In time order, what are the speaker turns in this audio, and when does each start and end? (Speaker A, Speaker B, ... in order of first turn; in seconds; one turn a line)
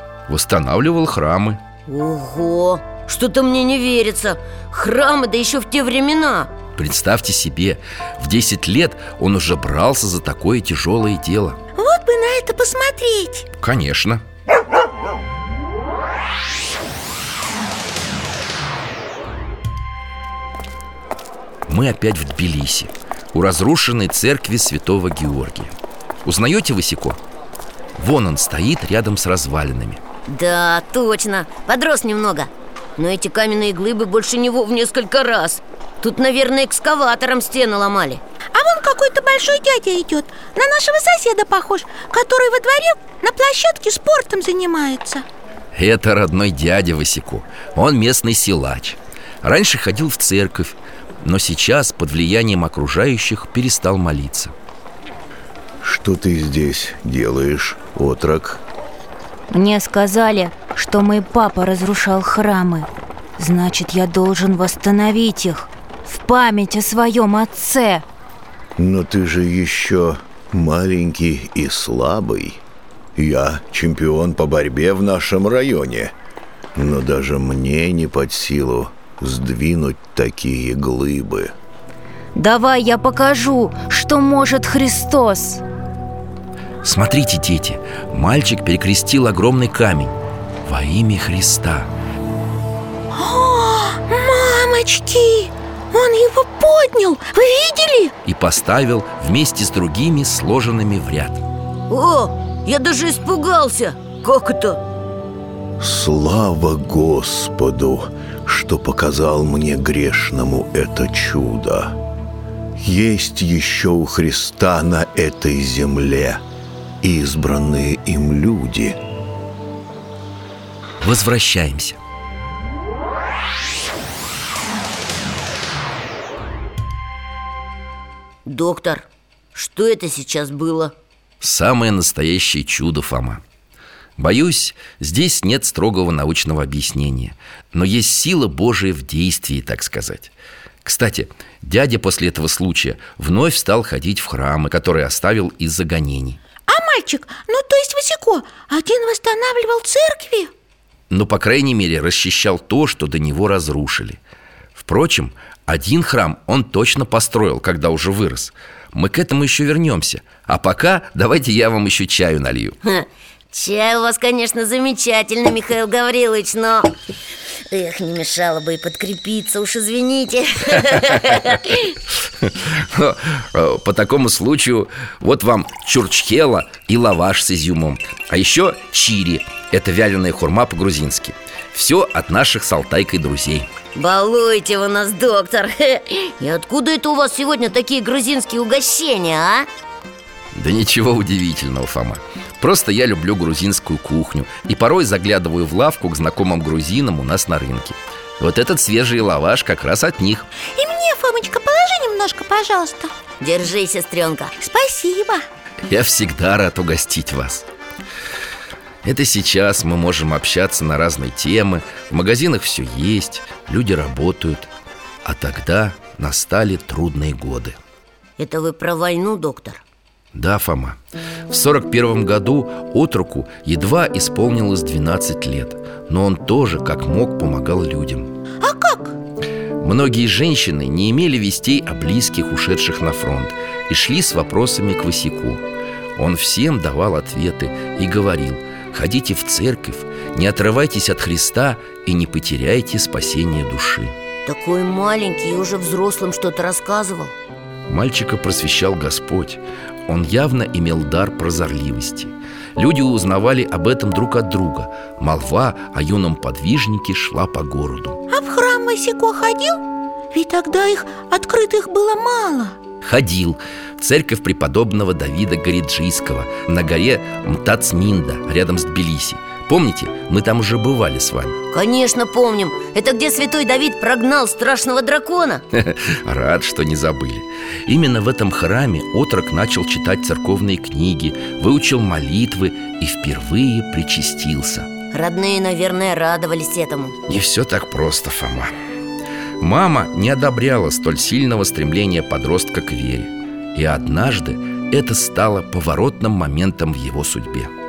Speaker A: 0.3-1.6
Speaker B: 1.9-6.5
Speaker A: 6.8-11.6
Speaker C: 11.8-13.5
Speaker A: 13.6-14.2
Speaker A: 21.7-25.7
Speaker A: 26.2-27.2
Speaker A: 28.0-30.0
Speaker B: 30.3-38.2
Speaker C: 38.5-45.2
Speaker A: 45.7-54.5
Speaker D: 55.8-58.6
Speaker E: 59.5-68.0
Speaker D: 68.8-72.6
Speaker D: 73.1-76.1
Speaker D: 76.7-81.5
Speaker E: 82.3-85.6
Speaker A: 86.8-91.9
Speaker C: 93.1-98.1
Speaker A: 98.2-101.4
Speaker B: 101.9-104.8
Speaker D: 105.8-112.0
Speaker D: 112.8-116.4
Speaker D: 117.0-119.0
Speaker A: 121.0-122.0
Speaker B: 128.4-130.9
Speaker A: 131.4-133.4
Speaker A: 134.2-140.3
Speaker A: 140.8-146.4
Speaker C: 146.7-150.5
Speaker A: 151.1-154.2
Speaker A: 154.8-162.8
Speaker B: 162.8-166.9
Speaker B: 167.7-171.8
Speaker A: 172.4-183.7
Speaker B: 183.9-189.7
Speaker A: 190.5-200.5
Speaker C: 200.7-203.1
Speaker B: 203.4-204.5
Speaker C: 204.6-205.4
Speaker A: 205.9-207.7
Speaker A: 209.0-214.7
Speaker A: 215.2-217.8
Speaker B: 218.4-219.8
Speaker A: 220.3-221.0
Speaker A: 221.5-228.3
Speaker C: 228.6-229.2
Speaker A: 229.8-235.6
Speaker A: 236.2-244.1
Speaker B: 244.4-247.3
Speaker A: 247.9-258.2
Speaker C: 258.3-259.8
Speaker C: 260.3-262.8
Speaker A: 263.0-271.6
Speaker B: 271.7-275.6
Speaker A: 275.7-284.9
Speaker B: 285.1-287.2
Speaker A: 287.3-288.7
Speaker A: 289.6-297.7